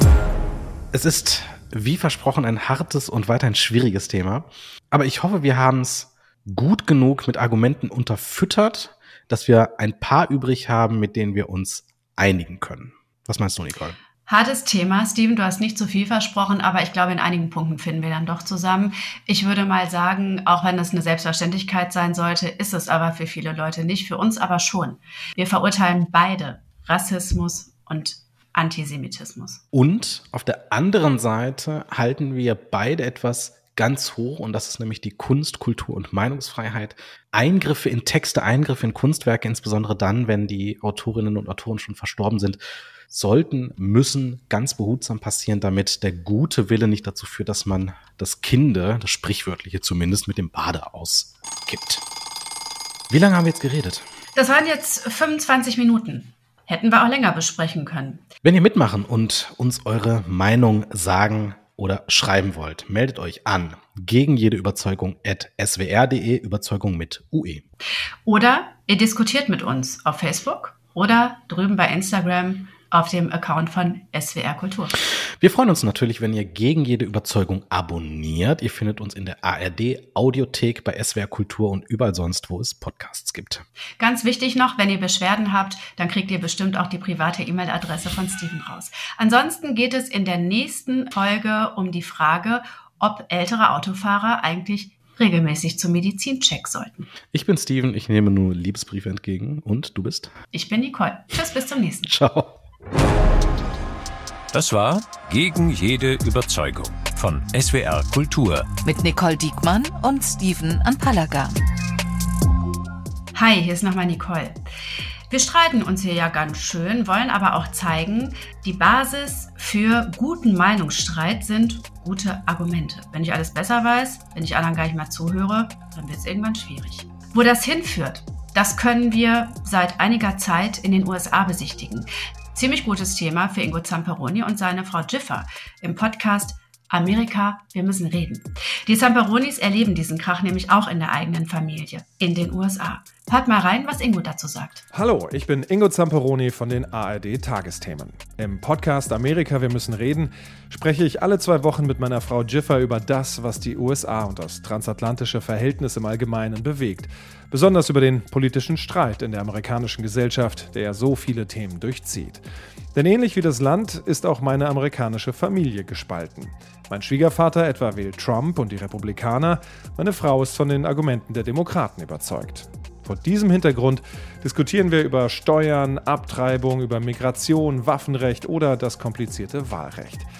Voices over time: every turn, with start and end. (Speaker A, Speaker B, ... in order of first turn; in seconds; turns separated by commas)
Speaker A: 0.9-14.0, Speaker B: 14.3-29.6, Speaker A: 29.7-52.0, Speaker A: 53.1-54.0, Speaker B: 54.3-58.2, Speaker A: 58.4-67.7, Speaker B: 68.2-75.0, Speaker A: 75.4-83.6, Speaker B: 84.0-97.1, Speaker A: 97.3-100.3, Speaker B: 100.5-102.1, Speaker A: 102.1-102.6, Speaker C: 104.5-108.7, Speaker D: 108.8-111.6, Speaker B: 113.3-114.6, Speaker B: 115.3-144.8, Speaker E: 144.9-162.4, Speaker E: 162.9-180.3